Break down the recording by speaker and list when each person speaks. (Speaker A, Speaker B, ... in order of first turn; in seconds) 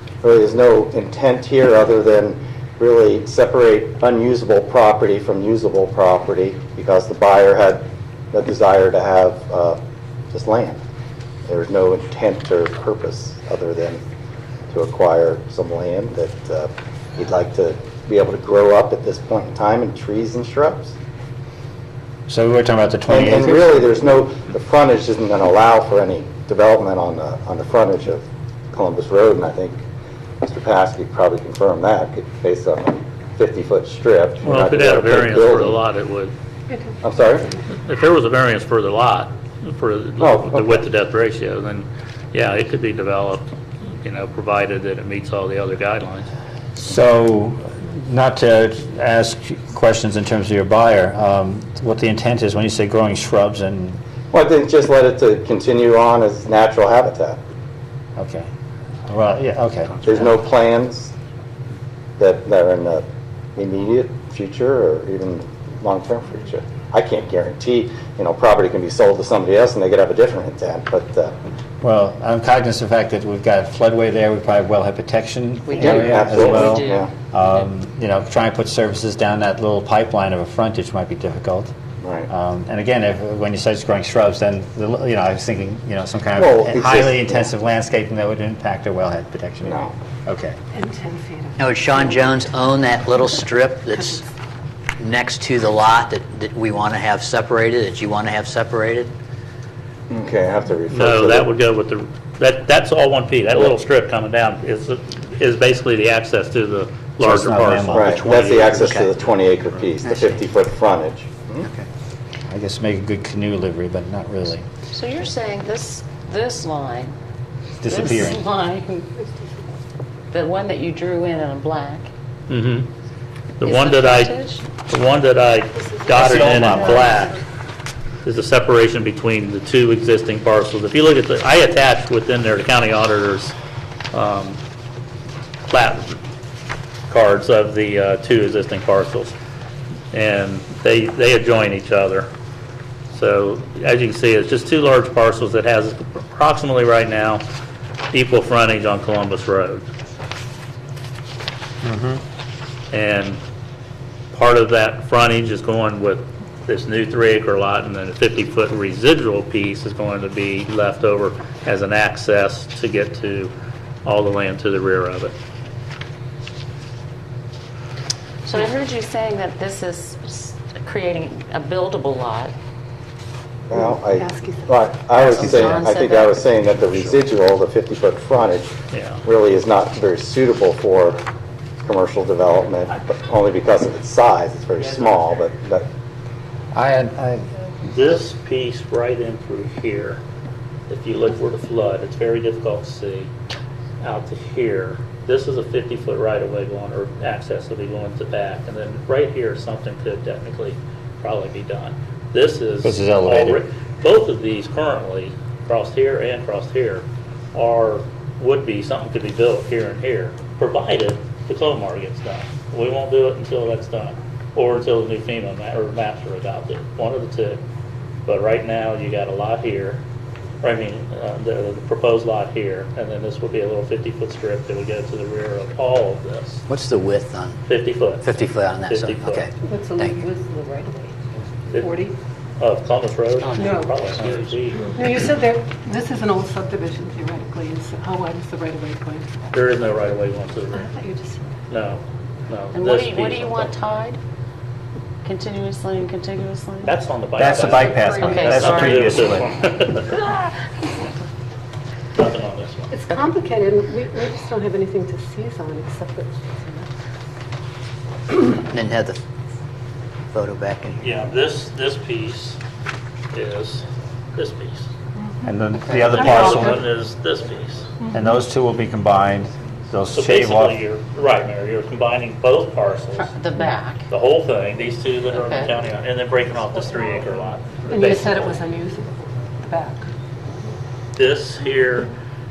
Speaker A: 0.2-9.8, 10.3-10.8, 11.4-14.0, 14.7-20.9, 23.1-29.8, 30.4-35.8, 37.0-37.5, 40.2-40.8, 54.3-57.4, 60.0-61.1, 62.2-63.0, 63.5-71.3, 75.7-77.1, 82.0-82.3, 86.4-87.5, 89.6-89.9, 100.1-101.5, 107.9-111.7, 173.7-178.7, 179.2-181.2, 181.8-185.9
Speaker B: 22.3-23.9, 46.8-54.0, 58.1-58.5, 59.1-60.1, 71.8-81.7, 82.3-90.6, 107.2-108.1, 112.5-114.6, 117.8-118.4, 126.1-127.2, 151.8-152.2, 186.7-187.5, 202.8-203.6, 247.3-249.5, 265.4-266.8, 268.1-270.8
Speaker C: 34.4-36.3, 37.7-43.5, 44.0-46.3, 100.9-109.0, 122.5-122.9, 123.6-127.4, 128.2-133.5, 134.1-134.6, 135.7-136.2, 137.1-139.3, 140.1-142.3, 143.1-147.4, 148.1-149.8, 152.9-153.4, 154.3-163.5, 164.0-165.3, 178.9-179.2, 187.8-190.2, 190.9-193.3, 194.0-217.6, 218.2-220.0, 220.6-226.6, 227.7-228.3, 228.8-229.5, 231.7-232.0, 232.6-235.0, 239.5-240.9, 241.7-243.7, 246.8-250.5, 252.1-252.9, 261.0-262.6, 263.3-264.9, 266.1-267.9, 270.1-273.3, 274.1-278.6, 281.1-282.1
Speaker D: 75.7-77.0, 114.9-117.1, 117.9-119.2, 120.3-122.1, 123.6-124.7, 126.3-127.3, 168.4-172.5, 175.1-176.4, 230.2-231.1, 233.4-235.0, 242.7-244.2, 245.2-246.9, 247.6-249.1, 273.1-274.1, 275.3-275.7
Speaker E: 90.7-92.4, 173.7-174.6, 229.7-231.0, 231.7-232.2, 233.6-233.9, 234.9-239.3, 240.7-241.4, 252.9-256.9, 277.9-280.1
Speaker F: 91.6-94.2, 95.0-99.1, 108.7-109.1, 110.0-110.4, 111.6-111.9, 226.7-227.6, 228.2-230.2, 258.6-259.2, 260.3-261.1